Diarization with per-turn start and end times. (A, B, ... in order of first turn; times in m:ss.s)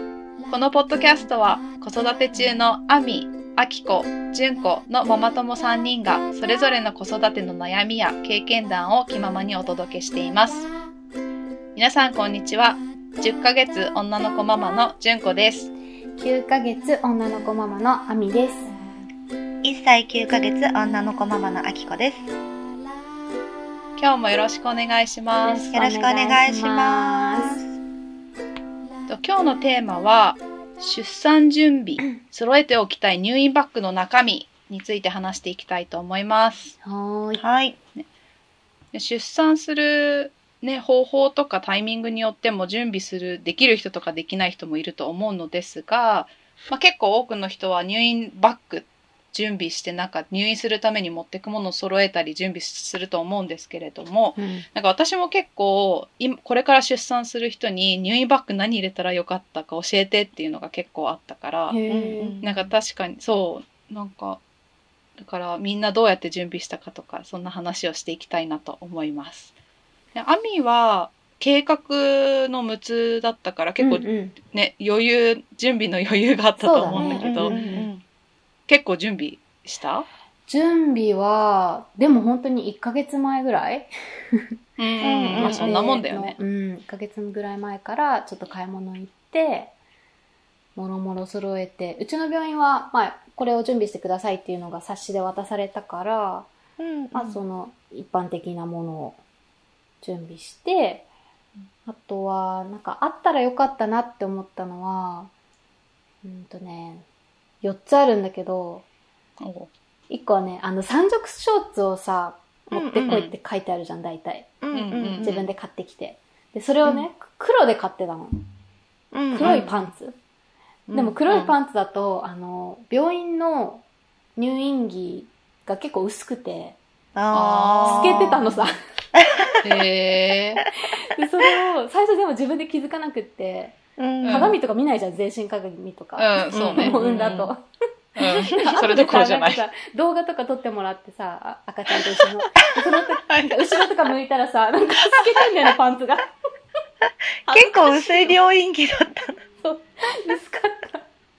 0:00.5-0:10.7 A
0:11.8-0:15.7 A
0:16.2-0:18.7 B
0:19.6-0:22.3 C
0:24.0-0:25.7 A
0:25.4-0:27.6 B
0:25.7-0:27.7 C
0:29.1-0:36.8 A
0:36.8-0:37.4 B
0:37.3-0:37.8 C
0:38.9-1:01.8 A
0:54.4-0:54.6 B
1:01.7-1:02.4 B
1:01.9-1:02.7 C
1:02.4-1:04.4 A
1:05.2-1:09.5 A
1:10.1-1:17.6 A
1:13.8-1:14.4 B
1:16.6-1:17.9 B
1:16.9-1:18.0 C
1:18.7-1:20.1 A
1:20.5-1:24.4 B
1:24.8-1:26.4 A
1:25.0-1:25.8 C
1:25.3-1:29.7 B
1:30.8-1:36.5 B
1:36.8-1:37.4 C
1:37.1-1:39.2 B
1:40.0-1:41.1 B
1:41.8-1:45.3 B
1:46.2-1:47.0 B
1:47.6-1:48.8 B
1:49.4-1:49.7 A
1:50.1-1:54.6 B
1:52.7-1:53.2 C
1:53.0-1:53.3 A
1:54.6-1:55.3 C
1:54.7-1:55.5 A
1:55.2-1:58.5 B
1:59.1-1:59.9 C
1:59.3-2:00.2 B
1:59.4-1:59.7 A
2:00.9-2:01.2 C
2:00.9-2:03.8 B
2:01.3-2:01.5 A
2:04.4-2:06.8 B
2:07.1-2:08.5 C
2:07.3-2:08.6 A
2:07.8-2:08.8 B
2:09.2-2:09.6 C
2:09.6-2:10.6 A
2:11.0-2:17.7 B
2:14.0-2:14.6 C
2:14.2-2:14.6 A
2:16.2-2:17.5 A
2:16.5-2:17.3 C
2:18.2-2:19.6 A
2:18.2-2:26.3 B
2:22.6-2:23.0 C
2:23.3-2:23.8 A
2:27.5-2:28.4 B
2:27.5-2:29.3 C
2:29.6-2:31.0 B